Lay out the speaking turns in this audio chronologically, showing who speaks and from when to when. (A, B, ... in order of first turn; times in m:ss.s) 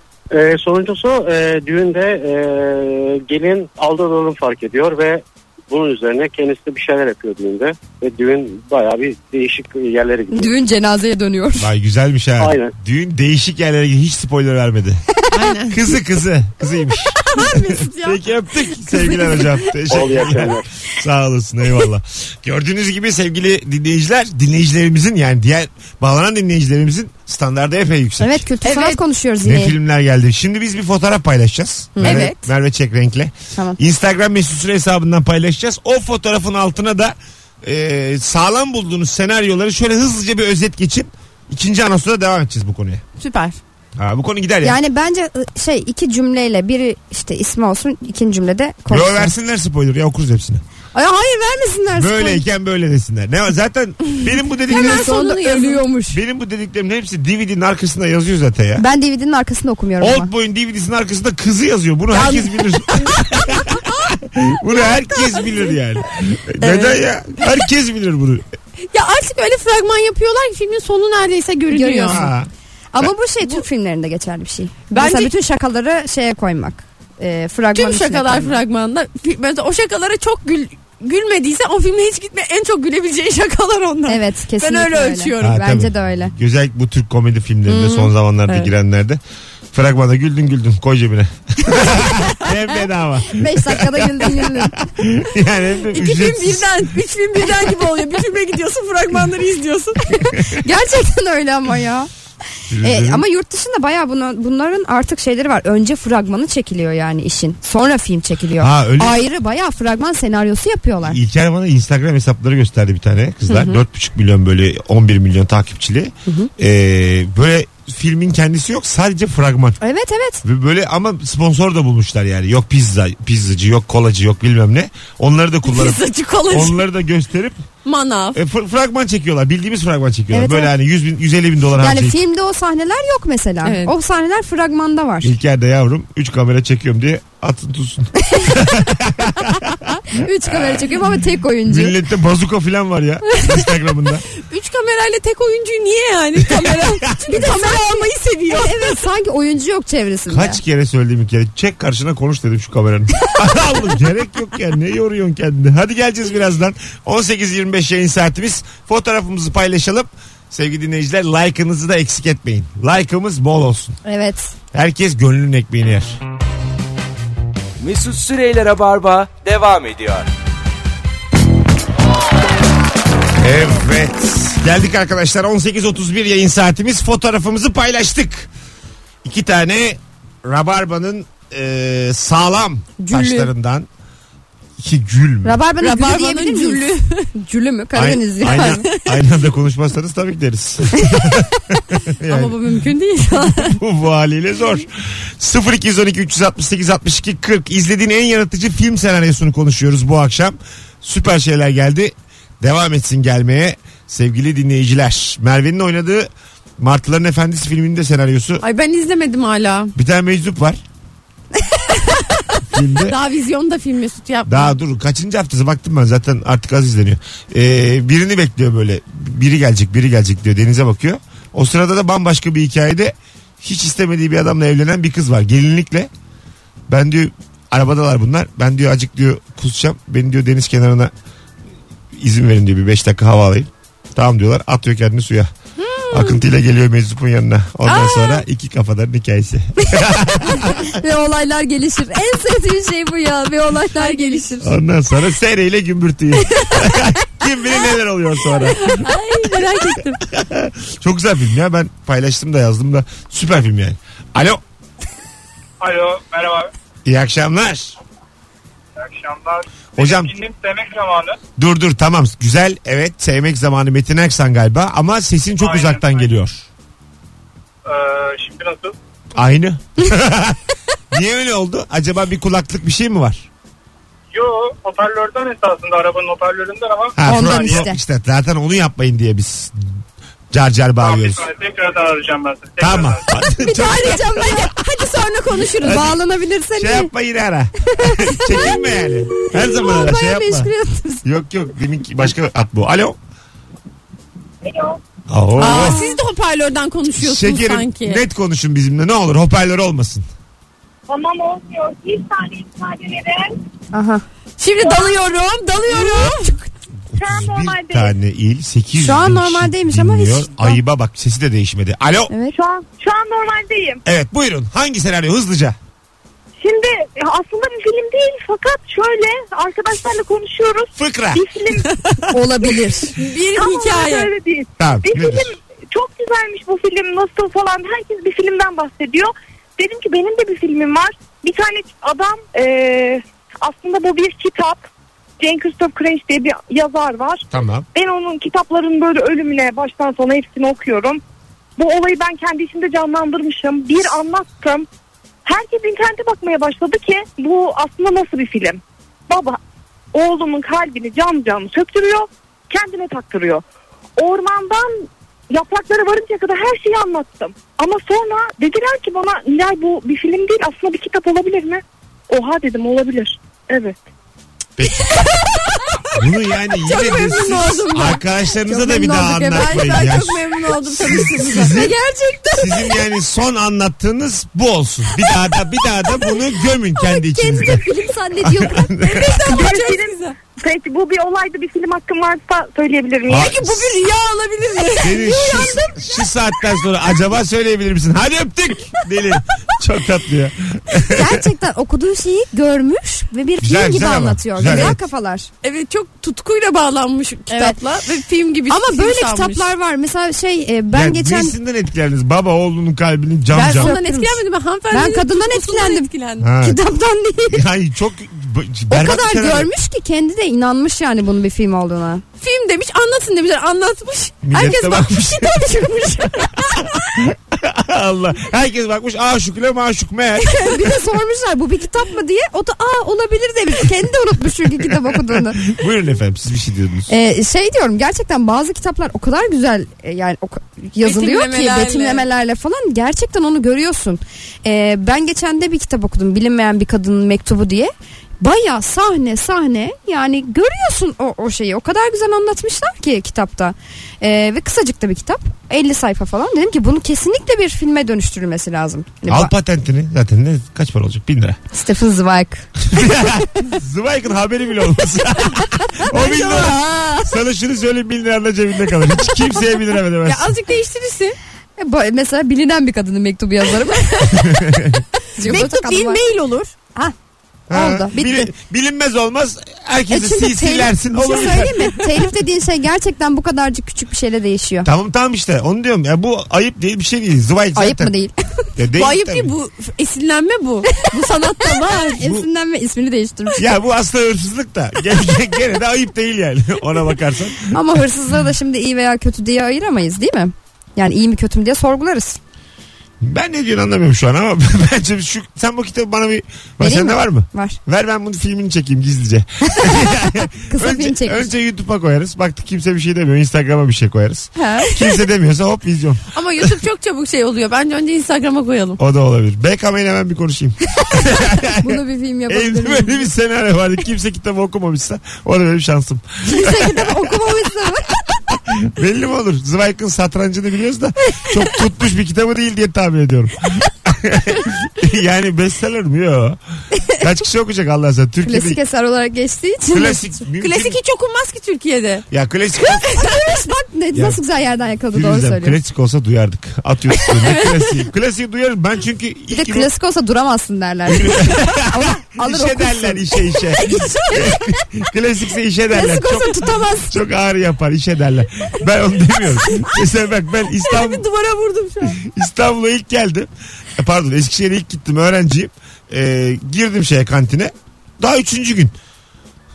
0:00.3-0:10.5 A
0:10.3-0:11.7 B
0:11.6-0:15.0 C
0:12.4-0:12.7 A
0:15.3-0:15.8 D
0:15.7-0:28.4 C
0:17.2-0:18.2 D
0:19.9-0:20.7 A
0:28.2-0:29.8 B
0:28.6-0:29.0 D
0:29.4-0:43.0 C
0:32.0-0:32.3 B
0:32.0-0:32.5 D
0:43.2-0:43.6 D
0:44.0-0:44.8 C
0:44.6-0:49.3 B
0:48.9-0:50.6 C
0:50.9-0:52.4 B
0:52.0-0:55.4 C
0:54.7-0:55.8 D
0:54.7-0:56.2 B
0:56.1-0:58.8 C
0:58.8-1:00.3 B
1:00.0-1:08.4 C
1:02.1-1:03.9 D
1:04.8-1:05.5 D
1:06.6-1:07.0 D
1:08.9-1:12.2 D
1:11.7-1:12.3 B
1:12.1-1:12.5 C
1:12.9-1:18.6 B
1:14.9-1:15.3 D
1:17.7-1:25.6 D
1:24.1-1:26.3 B
1:25.4-1:29.2 C
1:27.7-1:28.7 D
1:29.7-1:36.9 C
1:31.8-1:32.1 B
1:33.3-1:34.9 B
1:35.9-1:40.2 D
1:40.5-1:42.1 B
1:42.7-1:43.3 C
1:42.8-1:51.2 B
1:48.6-1:49.2 C
1:51.0-1:59.8 C
1:59.8-2:00.4 B
2:00.4-2:07.6 C
2:05.6-2:06.8 D
2:07.8-2:08.4 D
2:08.4-2:12.2 C
2:10.3-2:10.7 B
2:11.8-2:15.4 B
2:13.6-2:13.9 D
2:15.2-2:20.8 C
2:18.3-2:18.6 B
2:20.1-2:22.0 B
2:21.7-2:24.2 C
2:24.4-2:29.0 D
2:26.5-2:27.4 C
2:27.3-2:30.6 B
2:30.3-2:44.0 C
2:44.1-2:44.5 B
2:44.7-2:46.2 C
2:47.8-2:50.3 E
2:53.4-2:58.5 C
2:59.2-3:03.9 C
3:03.0-3:03.5 D
3:04.8-3:05.6 C
3:05.4-3:08.9 B
3:05.8-3:07.3 D
3:07.9-3:12.6 C
3:08.4-3:09.2 D
3:12.2-3:13.8 D
3:13.6-3:28.6 C
3:28.6-3:29.9 D
3:30.0-3:30.8 C
3:32.7-3:33.2 C
3:33.0-3:34.8 D
3:34.5-3:46.1 C
3:46.9-3:51.1 C
3:52.1-3:55.5 C
3:55.8-3:56.4 D
3:56.1-4:01.0 C
3:57.9-3:58.4 D
4:00.6-4:04.7 B
4:04.0-4:04.5 D
4:04.6-4:09.2 C
4:08.7-4:10.2 D
4:10.2-4:14.6 C
4:15.8-4:16.7 F
4:17.0-4:18.0 C
4:19.0-4:21.4 F
4:20.0-4:20.4 C
4:21.6-4:26.7 C
4:25.6-4:26.2 F
4:27.9-4:28.9 F
4:29.4-4:33.5 C
4:34.4-4:37.7 F
4:37.2-4:39.9 C
4:37.2-4:38.0 B
4:40.5-4:41.5 C
4:41.0-4:43.2 F
4:42.8-4:44.7 C
4:43.5-4:44.8 B
4:43.8-4:46.1 D
4:45.8-4:46.1 C
4:45.8-4:47.1 B
4:46.7-4:50.7 C
4:48.0-4:51.2 B
4:51.2-4:53.2 C
4:54.6-4:55.0 G
4:55.3-4:56.0 C
4:55.6-4:58.2 D
4:57.2-5:00.3 C
5:01.1-5:03.6 G
5:03.9-5:04.2 B
5:04.6-5:06.6 D
5:04.8-5:05.1 G
5:07.1-5:12.3 C
5:07.2-5:08.1 G
5:09.0-5:10.8 B
5:12.5-5:14.0 G
5:14.0-5:15.8 C
5:16.6-5:21.9 G
5:21.0-5:21.4 C
5:21.8-5:22.3 D
5:22.3-5:23.1 B
5:23.1-5:24.3 D
5:23.5-5:34.9 G
5:24.8-5:25.6 C
5:35.4-5:41.2 G
5:37.5-5:37.9 C
5:41.8-5:44.9 G
5:45.5-5:49.6 G
5:50.1-5:53.6 G
5:54.2-6:04.0 G
6:04.8-6:05.1 C
6:05.3-6:05.8 D
6:06.1-6:12.0 C
6:06.8-6:08.2 D
6:08.7-6:10.0 B
6:09.4-6:11.8 D
6:11.6-6:13.0 B
6:12.5-6:17.9 C
6:17.0-6:19.5 B
6:18.4-6:19.3 C
6:19.0-6:20.4 D
6:19.5-6:23.5 G
6:23.3-6:24.0 C
6:23.3-6:25.9 D
6:25.0-6:31.5 C
6:25.1-6:25.9 B
6:31.1-6:35.5 B
6:33.6-6:35.0 C
6:34.7-6:34.9 D
6:35.6-6:39.7 D
6:37.5-6:37.8 B
6:38.7-6:41.6 B
6:40.9-6:44.0 C
6:43.5-6:46.5 D
6:43.6-6:46.1 B
6:46.4-6:46.8 C
6:46.6-6:47.6 B
6:47.5-6:49.7 C
6:48.9-6:52.2 B
6:52.4-6:56.8 D
6:54.4-6:55.7 C
6:56.6-7:00.9 C
7:00.5-7:05.7 B
7:05.1-7:07.1 C
7:07.1-7:29.5 B
7:11.0-7:12.2 D
7:29.3-7:31.6 C
7:31.7-7:32.7 B
7:32.8-7:40.5 C
7:36.2-7:36.8 D
7:40.2-7:41.4 D
7:41.8-7:44.8 B
7:44.5-7:45.0 C
7:45.4-7:46.2 B
7:45.4-7:46.7 D
7:47.7-7:52.0 C
7:47.7-7:48.5 B
7:50.1-7:54.9 B
7:51.3-7:51.6 D
7:54.8-7:58.1 C
7:57.8-7:58.7 B
7:58.8-7:59.5 C
7:59.0-8:02.2 D
8:01.6-8:03.7 B
8:03.6-8:08.0 C
8:07.7-8:12.4 B
8:13.2-8:26.7 C
8:16.8-8:17.8 B
8:19.7-8:21.5 B
8:24.6-8:25.2 B
8:26.3-8:29.0 D
8:29.0-8:37.7 C
8:31.8-8:33.3 B
8:36.4-8:38.1 B
8:38.5-8:46.6 C
8:47.2-8:48.8 C
8:48.4-8:50.3 B
8:49.9-8:51.0 C
8:50.6-8:52.2 D
8:52.3-8:53.1 C
8:53.1-8:55.8 B
8:54.1-8:54.4 C
8:55.1-8:59.9 C
8:57.3-8:58.0 D
8:59.5-9:04.5 B
9:01.1-9:11.2 C
9:03.8-9:04.4 D
9:05.9-9:07.2 B
9:10.9-9:12.2 D
9:12.2-9:19.0 C